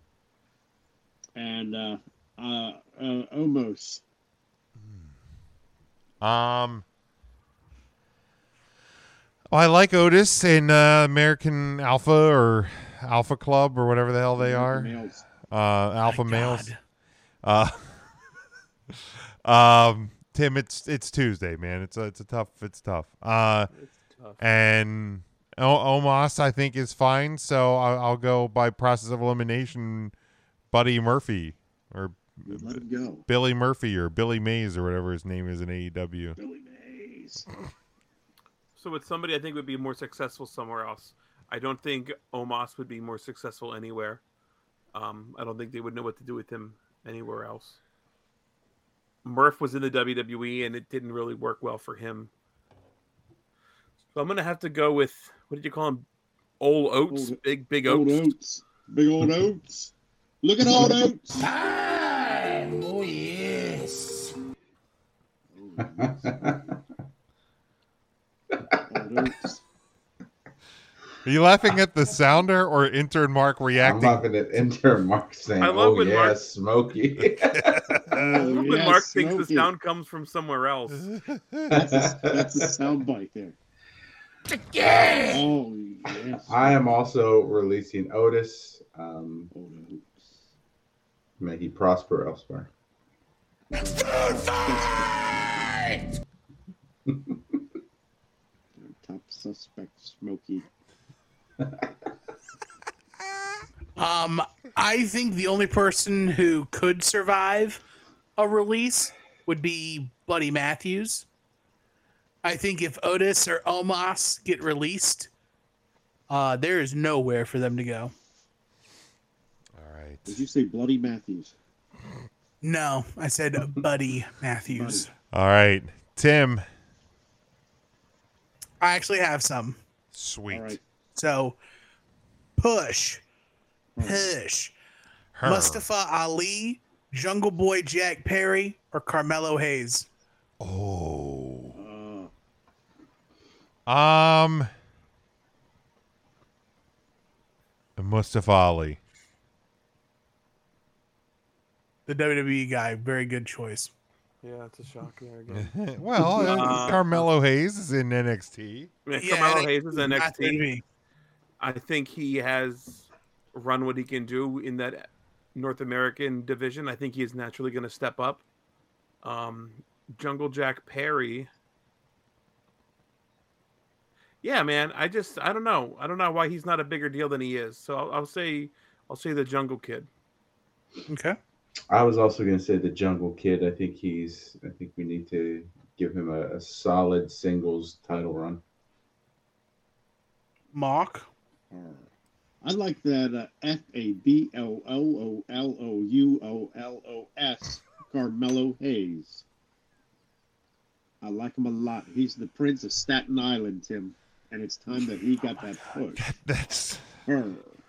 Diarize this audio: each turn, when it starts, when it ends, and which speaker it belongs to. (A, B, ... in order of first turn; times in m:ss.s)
0:01.4-0:04.0 A
0:04.8-0:05.1 B
0:06.2-0:06.8 B
0:09.5-0:14.9 B
0:14.4-0:15.3 A
0:15.5-0:16.7 B
0:16.0-0:16.8 C
0:17.4-0:18.0 B
0:18.9-0:23.7 B
0:23.7-0:24.4 D
0:24.4-0:30.1 B
0:30.7-0:36.4 B
0:32.5-0:33.2 A
0:36.4-0:37.4 A
0:38.8-0:44.2 D
0:44.9-0:47.8 D
0:49.2-0:52.3 D
0:54.1-0:56.0 D
0:56.6-0:58.3 D
0:57.1-1:01.5 A
1:01.4-1:04.3 E
1:05.5-1:06.6 A
1:06.0-1:06.7 F
1:08.9-1:09.6 A
1:11.2-1:14.2 B
1:13.8-1:17.9 F
1:15.6-1:16.4 D
1:17.5-1:18.6 B
1:18.1-1:19.7 A
1:18.4-1:21.1 D
1:21.1-1:21.7 B
1:21.7-1:22.8 F
1:21.7-1:23.6 A
1:24.5-1:25.4 E
1:25.2-1:26.9 A
1:26.4-1:29.5 F
1:29.5-1:30.3 A
1:31.4-1:32.7 F
1:33.7-1:35.7 A
1:38.8-1:40.7 A
1:44.0-1:47.8 C
1:48.4-1:51.2 C
1:52.4-1:55.3 C
1:56.3-1:58.1 C
1:59.7-2:00.4 B
2:00.3-2:01.5 A
2:02.6-2:05.1 C
2:04.7-2:05.1 A
2:05.3-2:06.6 B
2:08.8-2:09.8 C
2:10.1-2:10.8 B
2:10.5-2:10.8 A
2:11.1-2:11.6 C
2:12.6-2:13.2 C
2:13.9-2:14.3 A
2:14.0-2:14.7 C
2:15.3-2:15.8 B
2:15.4-2:20.1 C
2:20.6-2:21.8 B
2:21.7-2:22.3 A
2:23.9-2:24.7 B
2:28.0-2:29.0 B
2:32.1-2:33.9 C
2:34.4-2:37.2 D
2:35.5-2:38.9 B
2:39.0-2:40.6 D
2:39.2-2:40.8 C
2:41.6-2:48.4 D
2:49.2-2:51.5 D
2:54.4-3:00.1 D
3:01.1-3:01.4 C
3:01.9-3:08.6 F
3:10.7-3:11.3 C
3:11.7-3:12.1 A
3:12.6-3:19.4 A
3:21.2-3:26.2 A
3:26.1-3:27.0 B
3:27.2-3:27.7 A